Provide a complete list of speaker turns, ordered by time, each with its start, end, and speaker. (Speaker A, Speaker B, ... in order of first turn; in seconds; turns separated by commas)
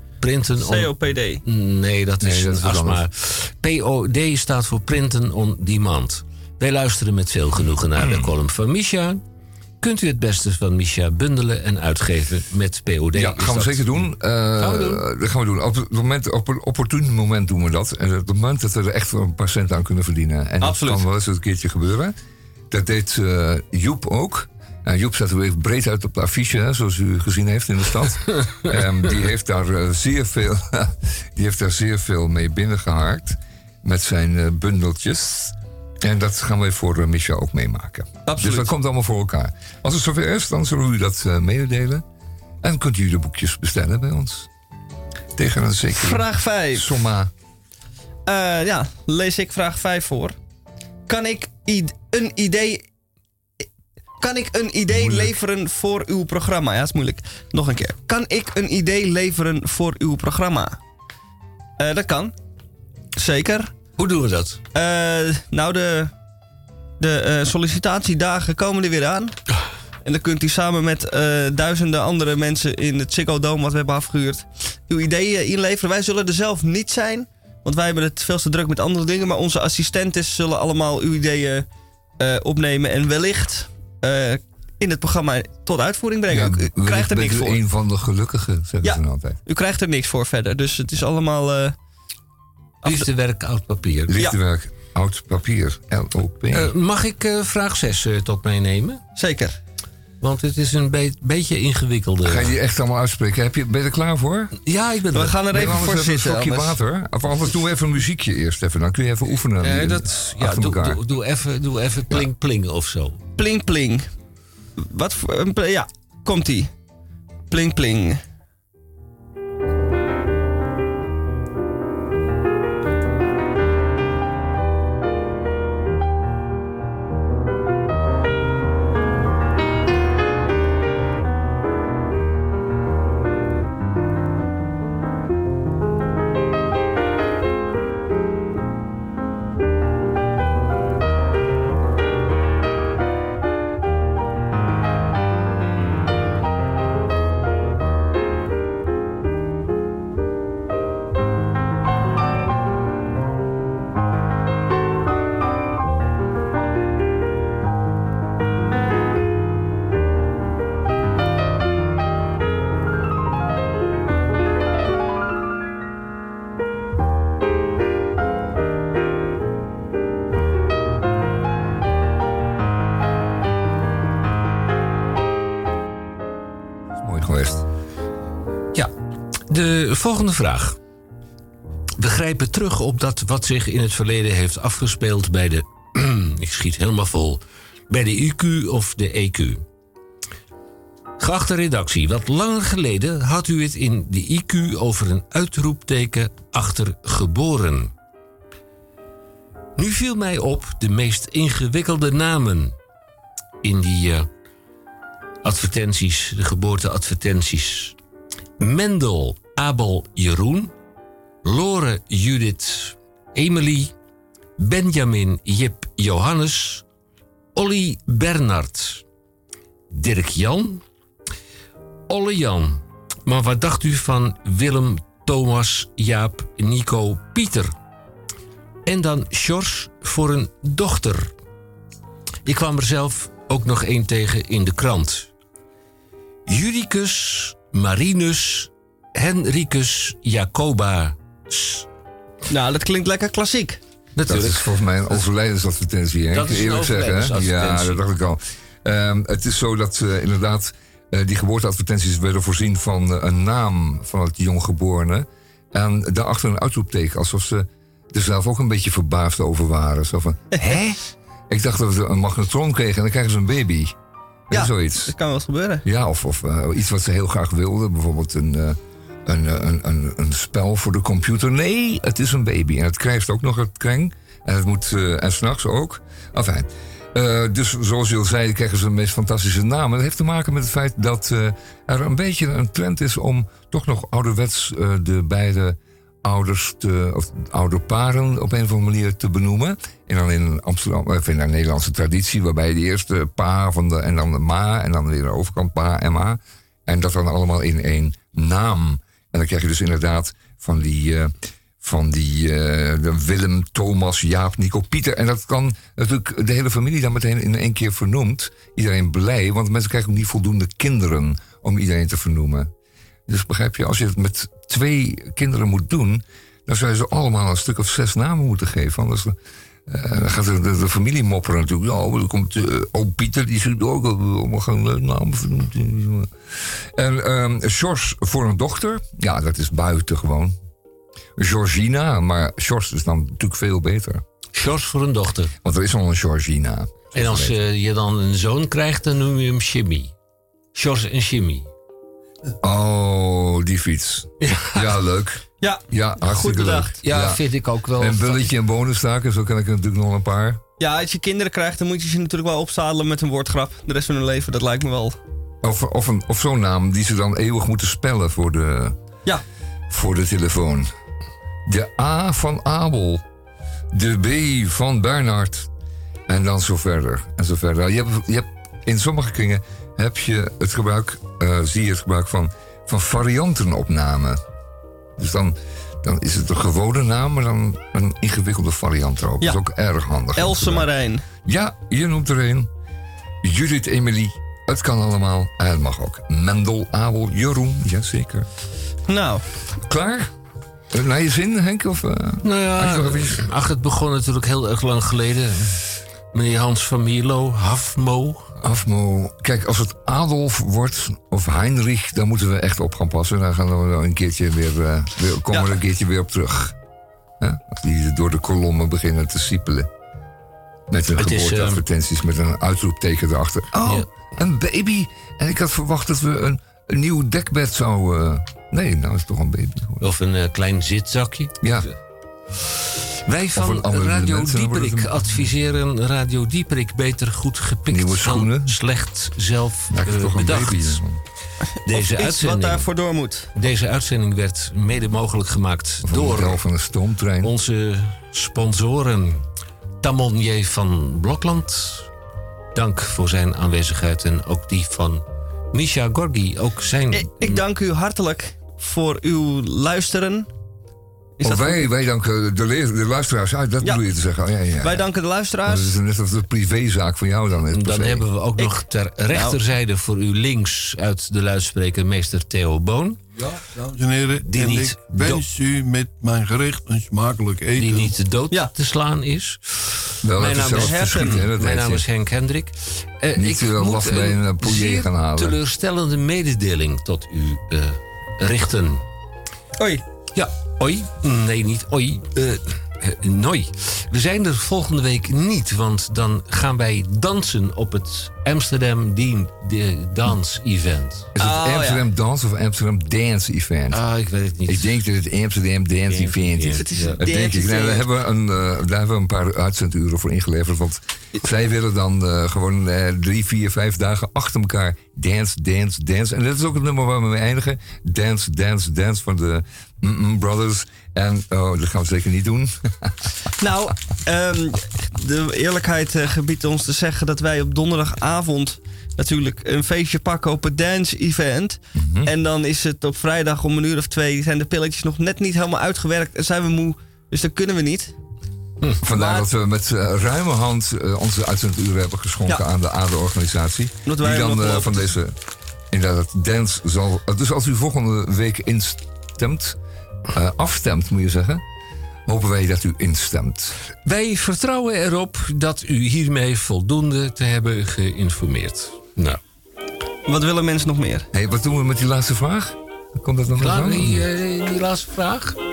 Speaker A: 0.2-0.9, Speaker B: 0.6-1.4, Speaker A: 1.4-9.2, Speaker C: 2.2-3.0, Speaker C: 8.0-8.3, Speaker A: 9.8-15.0, Speaker C: 13.1-22.1, Speaker B: 20.6-21.0, Speaker C: 22.7-42.0, Speaker B: 38.2-38.7, Speaker C: 42.6-44.5, Speaker C: 45.3-47.3, Speaker B: 45.9-46.9, Speaker B: 48.2-50.4, Speaker B: 51.1-52.8, Speaker B: 54.2-60.8, Speaker C: 54.9-55.3, Speaker B: 61.8-62.3, Speaker B: 63.1-63.7, Speaker A: 64.0-64.6, Speaker B: 64.7-66.1, Speaker B: 67.0-69.3, Speaker B: 70.0-81.7, Speaker B: 82.2-87.6, Speaker C: 86.3-89.4, Speaker B: 88.8-91.7, Speaker A: 92.8-94.1, Speaker C: 94.1-96.7, Speaker A: 96.5-99.0, Speaker B: 99.2-99.6, Speaker A: 100.2-102.5, Speaker C: 102.2-104.5, Speaker A: 104.6-105.8, Speaker B: 105.1-106.8, Speaker C: 105.5-111.0, Speaker A: 109.6-113.2, Speaker B: 113.4-114.1, Speaker B: 114.8-116.7, Speaker B: 117.5-118.2, Speaker C: 176.9-177.6, Speaker A: 179.5-180.8, Speaker A: 182.0-189.6, Speaker A: 191.2-197.9, Speaker A: 199.8-202.7, Speaker A: 203.6-204.3, Speaker A: 205.4-207.9, Speaker A: 208.6-210.7, Speaker A: 211.4-213.9, Speaker A: 214.6-216.8, Speaker A: 217.5-219.0, Speaker A: 219.9-220.8, Speaker A: 222.1-227.7, Speaker A: 228.8-231.3, Speaker A: 232.4-235.3, Speaker A: 236.5-241.8, Speaker B: 242.5-243.8, Speaker A: 244.2-245.2, Speaker C: 244.2-261.0, Speaker A: 246.3-248.0, Speaker C: 261.5-263.9, Speaker C: 264.5-265.1, Speaker B: 264.5-265.8, Speaker C: 265.8-312.7, Speaker C: 313.3-319.4, Speaker C: 319.9-330.6, Speaker C: 331.4-334.2, Speaker A: 334.5-335.5, Speaker C: 335.6-337.6, Speaker A: 337.1-340.1, Speaker A: 340.7-341.7, Speaker C: 342.6-347.4, Speaker A: 344.4-344.8, Speaker B: 345.6-346.9, Speaker A: 347.0-348.5, Speaker C: 347.9-350.6, Speaker B: 350.8-355.2, Speaker C: 355.6-358.9, Speaker C: 359.9-360.9, Speaker C: 361.6-363.2, Speaker C: 363.9-365.7, Speaker C: 366.3-374.4, Speaker C: 375.2-380.9, Speaker B: 380.4-381.2, Speaker C: 381.4-382.7, Speaker C: 383.4-388.5, Speaker B: 389.1-389.4, Speaker C: 389.9-390.3, Speaker C: 390.9-393.4, Speaker A: 392.4-398.5, Speaker C: 398.6-406.8, Speaker C: 407.4-409.9, Speaker C: 410.9-420.0, Speaker A: 411.2-411.8, Speaker A: 420.0-421.7, Speaker C: 421.6-421.9, Speaker A: 422.6-431.0, Speaker C: 423.5-425.5, Speaker C: 427.9-428.7, Speaker C: 429.9-431.2, Speaker B: 431.7-433.5, Speaker A: 431.8-432.9, Speaker A: 433.5-436.6, Speaker C: 436.0-437.5, Speaker A: 437.4-439.4, Speaker A: 440.0-442.1, Speaker A: 442.7-447.6, Speaker B: 447.1-450.5, Speaker B: 451.4-451.8, Speaker C: 451.4-455.0, Speaker B: 454.8-455.9, Speaker C: 455.6-458.2, Speaker A: 457.7-463.2, Speaker B: 459.3-459.6, Speaker D: 463.4-468.1, Speaker A: 464.4-465.4, Speaker A: 467.8-479.0, Speaker C: 470.2-472.0, Speaker B: 470.5-471.4, Speaker C: 473.3-475.6, Speaker B: 479.8-480.0, Speaker A: 480.3-491.3, Speaker C: 491.3-494.0, Speaker B: 491.4-492.0, Speaker A: 493.9-495.0, Speaker C: 494.7-513.3, Speaker A: 496.1-497.2, Speaker B: 496.8-498.1, Speaker B: 513.6-528.1, Speaker C: 522.0-522.3, Speaker C: 529.0-535.3, Speaker B: 529.1-529.5, Speaker B: 534.0-535.1, Speaker C: 535.9-539.8, Speaker C: 540.3-541.6, Speaker C: 542.2-543.8, Speaker A: 544.0-549.4, Speaker B: 550.3-551.3, Speaker C: 551.3-554.2, Speaker A: 553.5-555.6